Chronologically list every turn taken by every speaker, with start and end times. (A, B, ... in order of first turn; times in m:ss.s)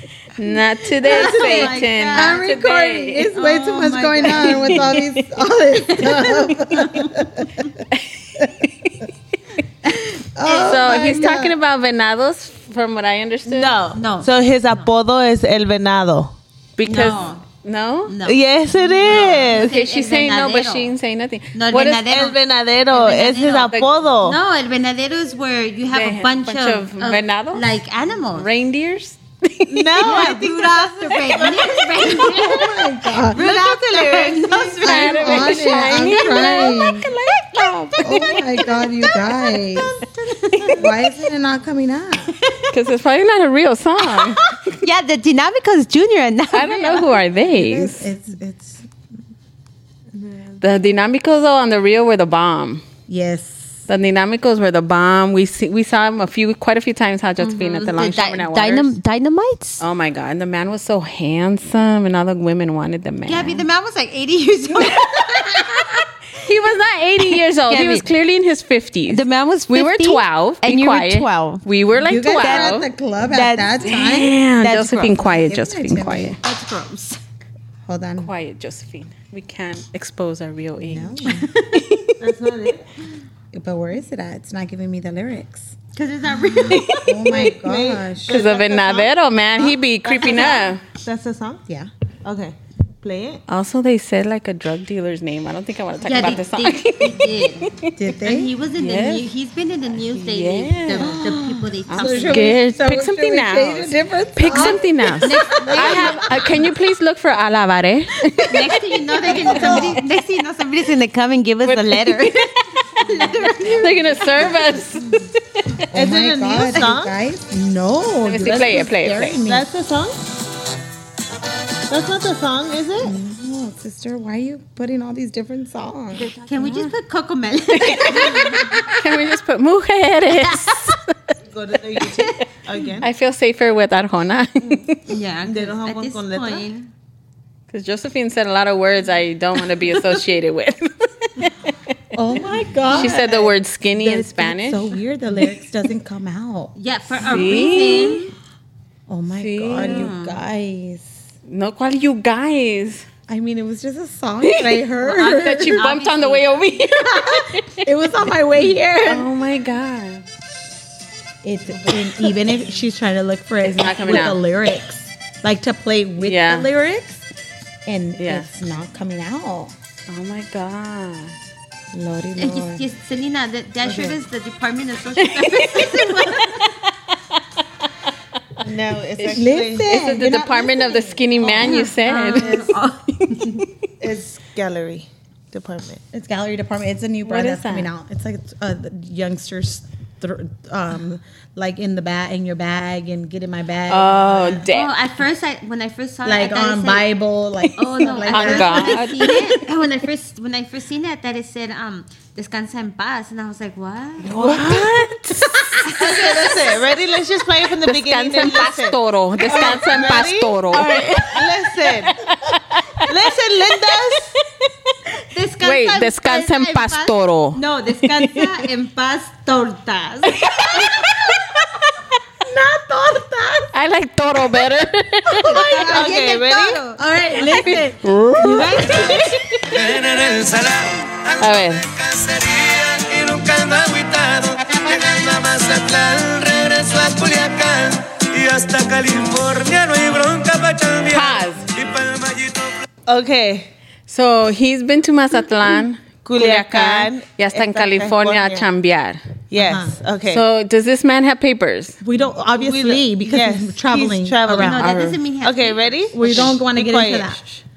0:00.4-0:03.3 A
0:01.0-0:02.5 B
0:01.1-0:07.8 C
0:03.3-0:05.0 B
0:04.5-0:05.0 A
0:05.9-0:07.3 B
0:07.9-0:09.1 A
0:10.4-0:11.6 C
0:10.5-0:13.8 A
0:10.7-0:11.3 B
0:13.5-0:14.9 B
0:14.2-0:16.4 D
0:16.8-0:18.2 A
0:16.9-0:17.4 B
0:18.1-0:20.9 B
0:18.2-0:19.8 D
0:19.1-0:22.1 A
0:21.5-0:22.4 B
0:22.0-0:24.4 D
0:22.9-0:28.5 B
0:25.9-0:27.7 A
0:28.3-0:30.4 A
0:29.7-0:31.5 D
0:30.0-0:36.8 B
0:31.4-0:31.9 A
0:32.1-0:33.5 C
0:33.4-0:34.8 D
0:34.7-0:38.7 A
0:34.8-0:37.1 C
0:37.9-0:39.4 B
0:38.0-0:40.0 C
0:40.2-0:40.8 B
0:40.5-0:40.8 A
0:40.7-0:42.4 C
0:42.4-0:42.7 B
0:42.7-0:44.4 A
0:44.1-0:47.1 B
0:46.5-0:48.1 A
0:47.4-0:48.9 C
0:50.6-0:52.8 A
0:53.1-0:53.8 C
0:53.9-0:58.9 A
0:57.4-0:59.8 B
0:59.8-1:03.6 A
1:03.3-1:06.0 B
1:04.9-1:05.6 A
1:06.4-1:12.9 A
1:07.2-1:08.1 B
1:09.1-1:11.6 B
1:12.0-1:14.4 C
1:12.4-1:13.8 B
1:13.8-1:16.4 A
1:14.6-1:15.2 B
1:15.2-1:16.4 C
1:16.4-1:17.2 B
1:17.8-1:18.3 C
1:18.2-1:22.2 A
1:20.8-1:21.5 C
1:21.2-1:21.8 B
1:22.2-1:22.8 D
1:23.5-1:25.8 C
1:25.9-1:27.3 B
1:26.5-1:28.4 C
1:26.7-1:27.0 A
1:27.2-1:31.6 D
1:28.3-1:30.8 A
1:30.2-1:30.6 B
1:32.2-1:33.4 D
1:33.5-1:38.0 A
1:36.0-1:42.5 B
1:38.0-1:38.5 C
1:38.8-1:39.2 A
1:40.2-1:41.2 A
1:41.0-1:46.5 C
1:41.9-1:50.0 A
1:44.5-1:46.4 B
1:48.5-1:54.8 B
1:49.3-1:50.0 C
1:51.6-1:53.0 A
1:53.7-1:55.8 A
1:55.9-1:57.1 D
1:55.9-1:59.7 C
1:58.3-1:59.4 A
1:59.4-2:00.2 D
2:01.9-2:03.2 D
2:03.0-2:06.3 C
2:06.3-2:07.0 A
2:06.4-2:09.0 B
2:07.8-2:11.1 A
2:10.5-2:11.0 B
2:11.5-2:13.1 D
2:12.0-2:12.3 B
2:13.0-2:15.1 A
2:15.1-2:16.9 B
2:15.4-2:16.7 D
2:17.7-2:21.7 A
2:22.2-2:26.8 C
2:22.9-2:25.0 A
2:26.8-2:28.3 B
2:27.2-2:28.3 A
2:27.3-2:27.8 C
2:29.1-2:31.2 C
2:29.4-2:30.1 A
2:29.8-2:30.4 B
2:31.5-2:33.0 A
2:33.3-2:35.8 C
2:34.4-2:37.9 A
2:35.0-2:37.0 B
2:37.2-2:39.3 C
2:39.1-2:40.2 A
2:41.4-2:47.3 C
2:43.6-2:44.4 A
2:46.2-2:46.7 A
2:47.9-2:49.7 C
2:48.2-2:48.5 A
2:50.1-2:51.4 A
2:51.9-2:52.8 C
2:52.4-2:56.7 B
2:53.8-2:54.2 D
2:55.2-2:57.8 A
2:58.6-3:00.0 D
2:59.2-3:02.7 A
2:59.3-3:02.7 C
3:01.6-3:03.7 B
3:03.3-3:03.6 A
3:04.0-3:06.0 D
3:06.1-3:14.7 C
3:07.3-3:07.9 A
3:13.9-3:14.9 A
3:14.7-3:17.1 B
3:16.2-3:19.2 C
3:17.8-3:24.3 B
3:18.3-3:19.6 A
3:24.2-3:24.9 D
3:24.2-3:26.0 A
3:25.8-3:26.8 B
3:25.9-3:32.2 D
3:27.8-3:33.2 A
3:33.1-3:34.4 D
3:35.3-3:40.9 B
3:35.6-3:38.6 A
3:40.3-3:41.6 A
3:42.4-3:43.7 C
3:43.7-3:45.7 A
3:45.3-3:49.3 C
3:45.4-3:47.0 B
3:45.7-3:46.8 D
3:47.6-3:49.7 A
3:48.4-3:49.3 B
3:49.7-4:02.9 E
3:51.4-3:51.9 A
4:01.1-4:01.7 A
4:03.1-4:03.7 D
4:04.1-4:09.2 A
4:06.2-4:08.7 D
4:09.5-4:10.4 D
4:09.6-4:10.0 C
4:10.3-4:12.0 A
4:12.0-4:14.9 C
4:12.6-4:17.3 D
4:14.5-4:15.9 B
4:14.8-4:15.2 A
4:16.1-4:17.4 C
4:16.2-4:16.5 A